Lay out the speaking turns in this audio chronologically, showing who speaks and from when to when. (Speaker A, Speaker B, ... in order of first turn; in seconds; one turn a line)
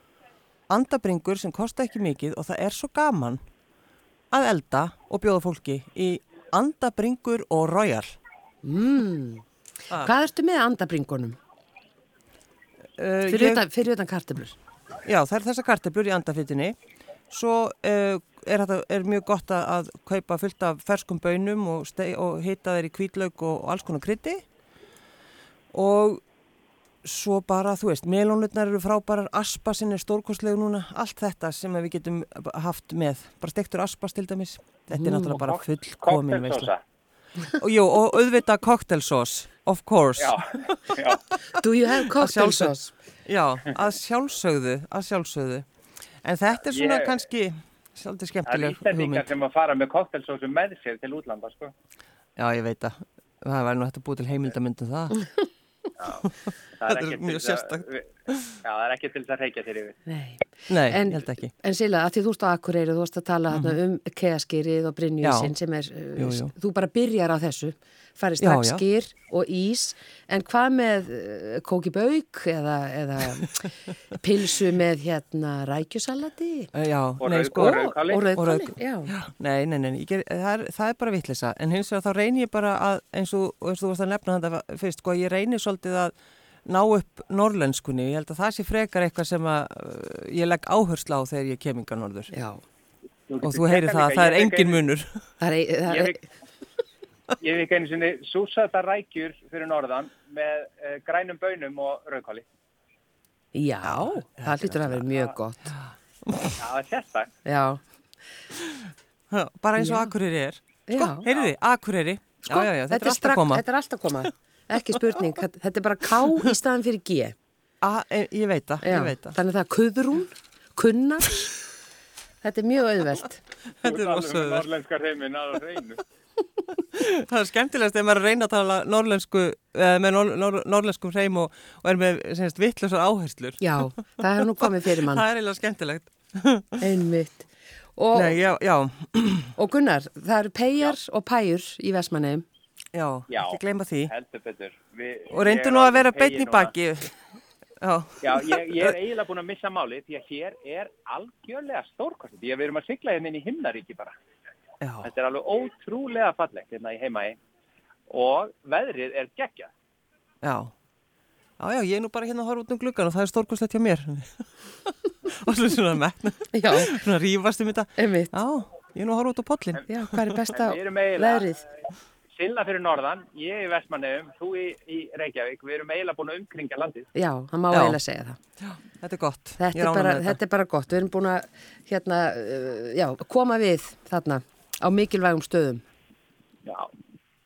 Speaker A: 0.7-3.4
Speaker A: 4.3-8.2
Speaker B: 8.6-9.4
Speaker B: 10.0-11.4
Speaker A: 13.0-13.6
Speaker B: 13.3-14.6
Speaker A: 15.1-16.8
Speaker A: 17.3-24.4
Speaker A: 25.7-26.2
Speaker A: 27.1-36.7
Speaker B: 34.9-35.4
Speaker C: 35.4-36.8
Speaker A: 37.5-40.9
Speaker C: 40.2-41.2
Speaker B: 41.5-42.9
Speaker A: 42.2-42.7
Speaker A: 43.2-45.7
Speaker A: 46.2-49.3
Speaker C: 46.6-47.2
Speaker C: 48.5-51.7
Speaker A: 52.4-55.2
Speaker C: 56.0-58.1
Speaker A: 56.9-58.6
Speaker C: 58.6-60.0
Speaker B: 60.1-76.7
Speaker A: 60.7-61.5
Speaker A: 63.5-63.8
Speaker A: 65.2-65.5
Speaker A: 66.2-66.5
Speaker A: 68.4-68.8
Speaker A: 76.7-86.1
Speaker C: 77.2-78.3
Speaker B: 77.6-79.1
Speaker A: 86.7-92.3
Speaker B: 92.3-92.6
Speaker C: 93.3-94.8
Speaker A: 93.4-95.2
Speaker B: 95.4-96.2
Speaker C: 95.9-96.2
Speaker C: 97.4-102.4
Speaker B: 103.5-105.7
Speaker A: 103.8-105.0
Speaker A: 106.3-106.6
Speaker C: 106.6-107.3
Speaker B: 107.5-107.8
Speaker A: 108.5-113.6
Speaker B: 109.8-110.1
Speaker B: 110.9-111.3
Speaker C: 111.2-111.5
Speaker B: 112.5-117.3
Speaker A: 117.8-119.4
Speaker B: 118.8-121.5
Speaker B: 122.4-123.4
Speaker A: 123.8-124.7
Speaker C: 123.8-126.0
Speaker A: 126.8-133.8
Speaker B: 133.6-135.2
Speaker A: 134.6-136.8
Speaker B: 136.8-138.4
Speaker A: 138.1-139.6
Speaker B: 139.6-142.4
Speaker A: 142.9-144.1
Speaker C: 143.3-146.7
Speaker A: 145.3-147.1
Speaker A: 147.8-148.9
Speaker C: 148.2-154.2
Speaker A: 154.8-155.1
Speaker C: 155.0-157.4
Speaker C: 158.1-159.7
Speaker A: 160.4-160.7
Speaker A: 161.6-170.5
Speaker B: 166.5-166.9
Speaker B: 168.0-168.3
Speaker B: 169.9-171.6
Speaker C: 170.5-171.7
Speaker C: 172.4-177.1
Speaker B: 177.2-178.4
Speaker A: 177.7-178.0
Speaker A: 178.6-180.4
Speaker B: 179.6-185.8